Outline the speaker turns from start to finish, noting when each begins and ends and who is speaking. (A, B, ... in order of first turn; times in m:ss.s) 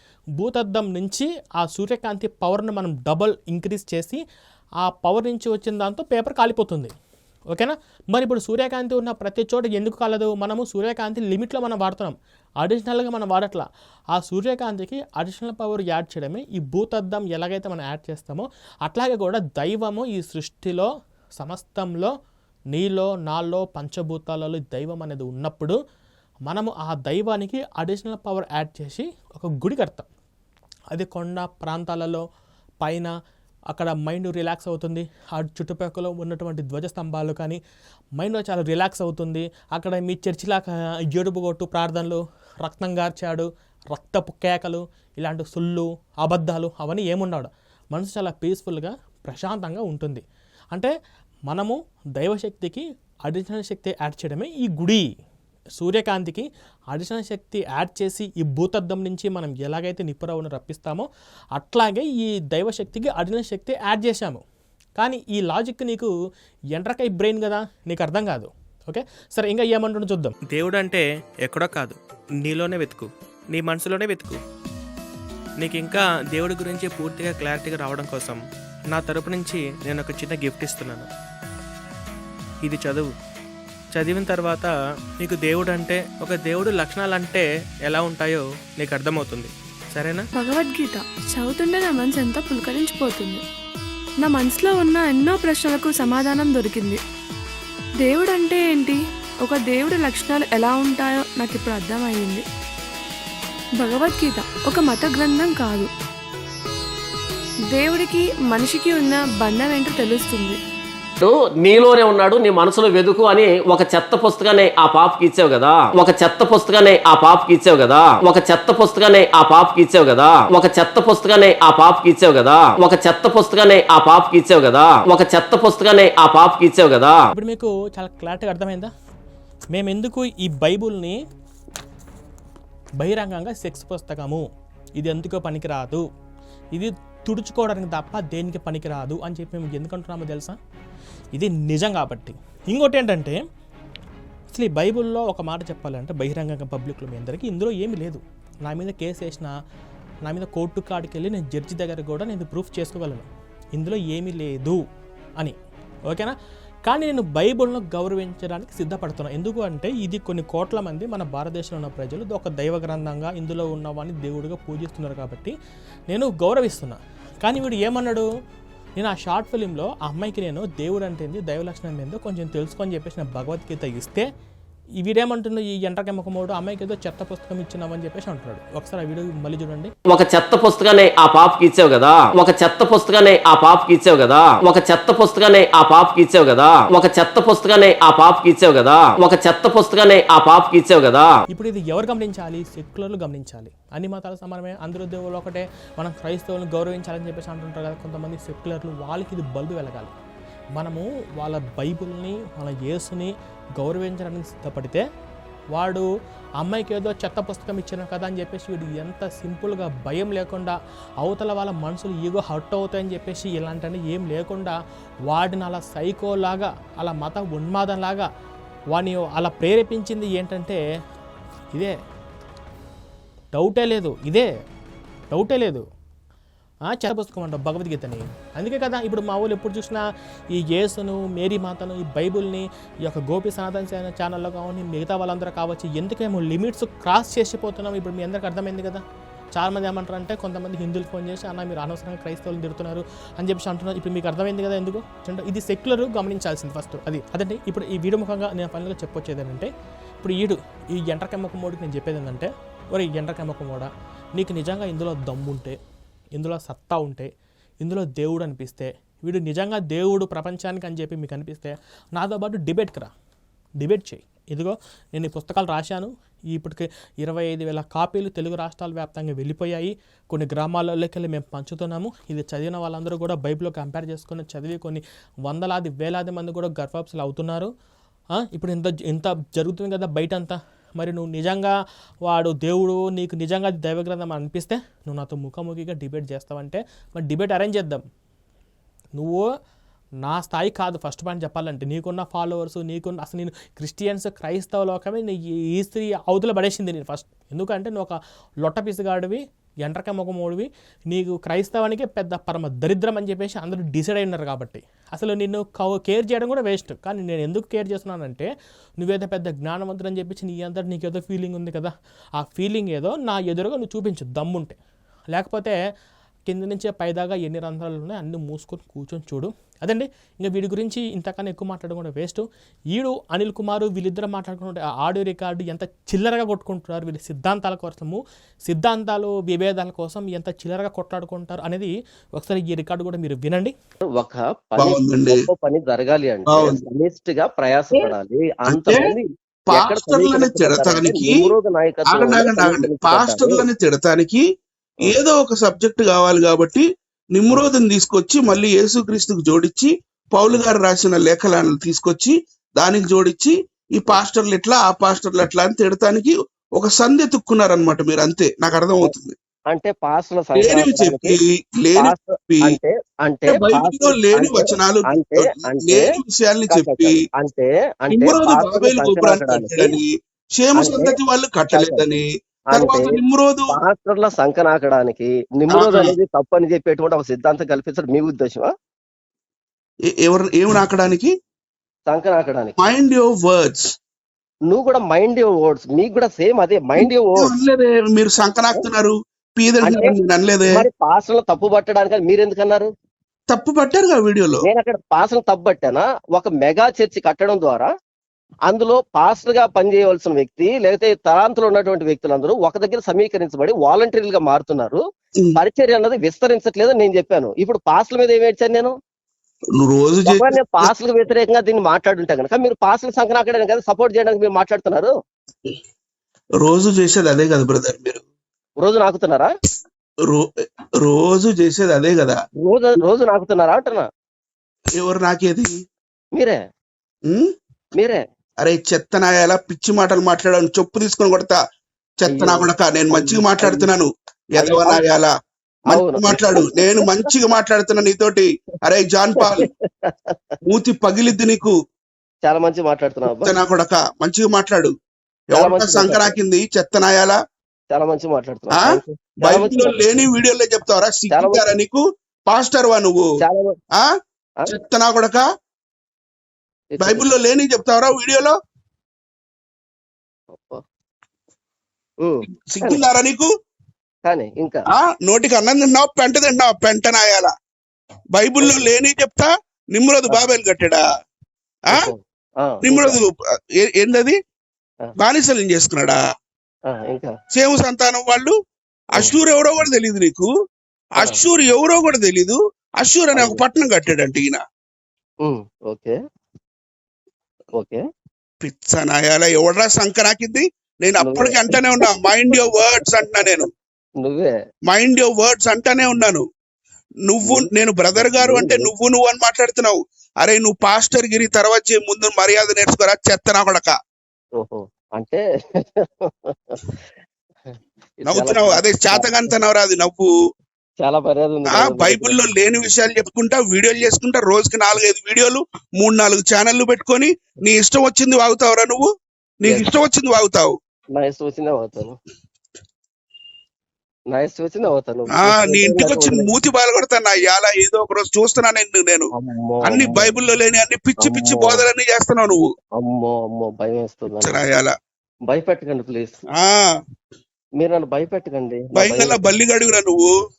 0:00.4-0:04.2 A
0:04.8-0:06.9 A
0:07.5-0:20.9 A
0:21.4-0:22.1 A
0:22.7-0:25.8 A
0:26.5-0:30.1 A
0:30.9-0:32.2 A
0:32.8-0:33.1 A
0:33.7-0:37.6 A
0:38.2-0:50.9 A
0:51.5-0:55.1 A
0:55.8-1:04.4 A
1:05.0-1:06.1 A
1:06.7-1:14.4 A
1:15.6-1:18.4 A
1:18.9-1:21.1 A
1:22.6-1:23.1 A
1:24.0-1:30.2 A
1:30.4-1:33.4 B
1:34.2-1:37.0 B
1:38.0-1:42.4 B
1:43.8-1:45.9 B
1:47.7-1:50.6 B
1:51.2-2:07.3 C
2:07.3-2:08.9 A
2:09.7-2:11.2 A
2:13.0-2:14.4 A
2:15.0-2:16.0 A
2:16.7-2:20.6 A
2:21.4-2:23.4 A
2:24.5-2:29.5 A
2:30.2-2:34.8 A
2:36.1-2:36.3 A
2:36.9-2:45.5 A
2:46.1-2:48.3 A
2:49.0-2:54.3 A
2:55.0-2:59.9 A
3:00.1-3:11.3 C
3:11.5-3:20.1 A
3:20.8-3:25.0 A
3:25.7-3:26.1 A
3:26.6-3:34.7 A
3:35.3-3:38.3 A
3:38.9-3:40.8 A
3:43.5-3:44.5 A
3:45.3-3:45.8 A
3:46.9-3:59.0 A
3:59.6-4:15.8 A
4:16.4-4:17.3 A
4:17.8-4:23.1 A
4:23.8-4:37.7 A
4:38.5-4:41.7 A
4:42.2-4:48.0 A
4:49.2-4:49.4 A
4:50.2-5:08.5 A
5:09.0-5:14.8 A
5:15.3-5:15.8 A
5:16.5-5:33.7 A
5:34.1-5:43.6 D
5:34.8-5:35.4 E
5:36.5-5:36.8 E
5:38.7-5:39.1 E
5:39.7-5:41.4 E
5:42.1-5:44.4 E
5:45.0-5:59.4 E
5:59.7-6:01.4 D
6:00.6-6:02.8 E
6:02.0-6:06.1 D
6:03.5-6:07.2 E
6:06.7-6:09.9 D
6:08.1-6:13.7 E
6:10.8-6:11.2 D
6:11.7-6:12.0 D
6:12.7-6:13.2 D
6:13.7-6:18.7 D
6:15.7-6:16.1 E
6:20.1-6:21.3 E
6:22.1-6:22.8 D
6:22.8-6:24.0 E
6:24.7-6:27.5 D
6:27.0-6:30.8 E
6:29.8-6:30.2 D
6:30.7-6:32.9 D
6:33.5-6:34.7 E
6:34.6-6:37.9 D
6:38.7-6:45.0 D
6:45.6-6:48.9 D
6:49.8-6:50.9 E
6:50.3-6:55.1 D
6:56.6-6:58.2 E
6:58.8-6:59.5 D
7:01.0-7:02.4 E
7:02.6-7:04.1 D
7:05.0-7:05.7 E
7:07.3-7:07.5 E
7:08.0-7:08.2 D
7:08.6-7:11.6 E
7:12.2-7:15.3 E
7:12.3-7:13.9 D
7:14.6-7:15.0 D
7:15.9-7:19.7 E
7:15.9-7:17.1 D
7:19.4-7:20.6 D
7:20.7-7:21.7 E
7:22.4-7:23.5 D
7:23.4-7:24.9 E
7:25.5-7:27.4 E
7:25.5-7:26.4 D
7:27.9-7:30.0 D
7:28.8-7:33.3 E
7:31.3-7:31.6 D
7:33.4-7:33.8 D
7:34.7-7:35.4 E
7:36.9-7:37.3 D
7:37.0-7:38.6 E
7:40.5-7:40.8 D
7:42.2-7:43.0 D
7:42.7-7:43.5 E
7:44.2-7:44.8 D
7:45.0-7:47.5 E
7:48.3-7:51.0 E
7:48.6-7:48.9 D
7:51.9-7:53.2 D
7:52.8-7:54.4 E
7:55.2-7:56.2 E
7:56.9-7:57.3 D
7:57.5-7:58.6 E
7:59.1-8:00.5 E
8:01.2-8:04.6 E
8:05.4-8:06.2 D
8:07.8-8:08.0 D
8:08.6-8:13.7 E
8:11.2-8:11.8 D
8:14.2-8:14.5 D
8:14.9-8:16.4 E
8:17.3-8:24.0 E
8:17.4-8:18.9 D
8:24.6-8:26.9 D
8:28.2-8:29.5 D
8:28.3-8:30.3 E
8:31.0-8:32.4 D
8:31.7-8:39.1 E
8:39.6-8:40.8 E
8:41.1-8:42.2 D
8:44.3-8:46.5 D
8:45.4-8:49.3 E
8:49.3-8:50.3 D
8:49.8-8:52.7 E
8:51.2-8:51.8 D
8:53.0-8:54.5 D
8:54.4-8:54.9 E
8:55.5-8:56.4 D
8:56.6-8:56.9 E
8:57.8-8:59.5 D
8:59.0-9:00.3 E